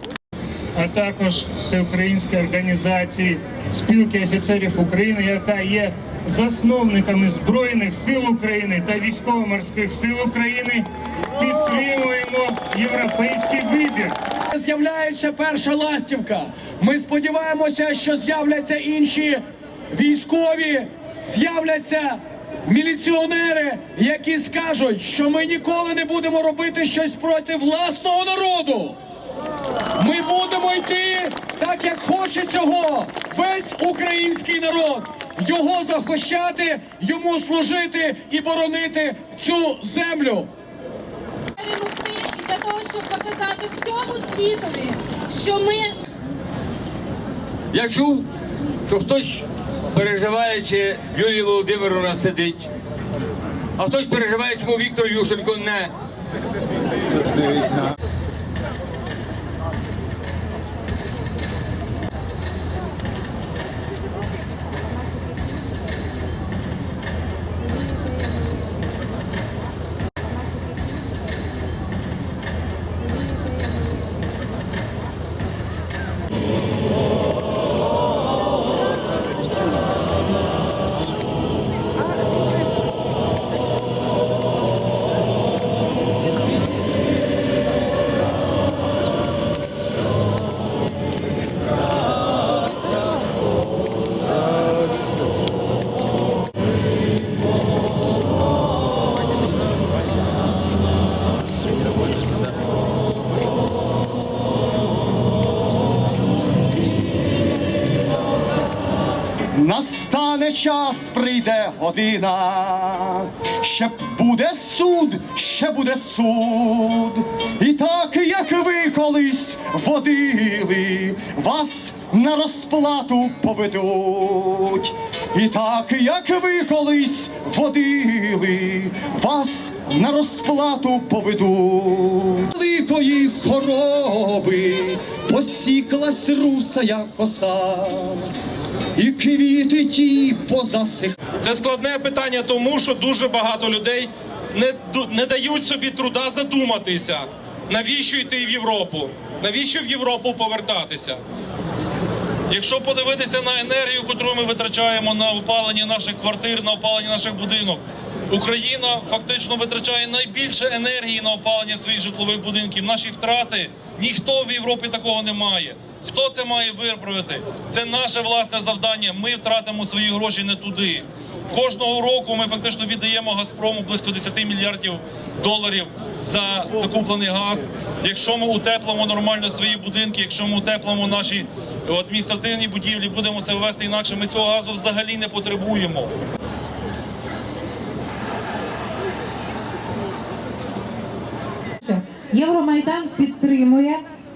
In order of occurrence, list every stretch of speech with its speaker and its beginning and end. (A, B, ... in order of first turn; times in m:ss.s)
0:00.8-0:10.8 A
0:11.4-0:14.1 A
0:14.5-0:29.0 B
0:30.0-0:40.5 B
0:41.6-0:46.0 C
0:47.7-0:48.3 D
0:48.9-0:52.7 D
0:53.8-0:55.9 D
1:49.5-2:18.3 E
2:19.0-2:21.2 E
2:21.4-2:31.2 F
2:32.5-3:06.1 G
3:11.8-3:14.0 H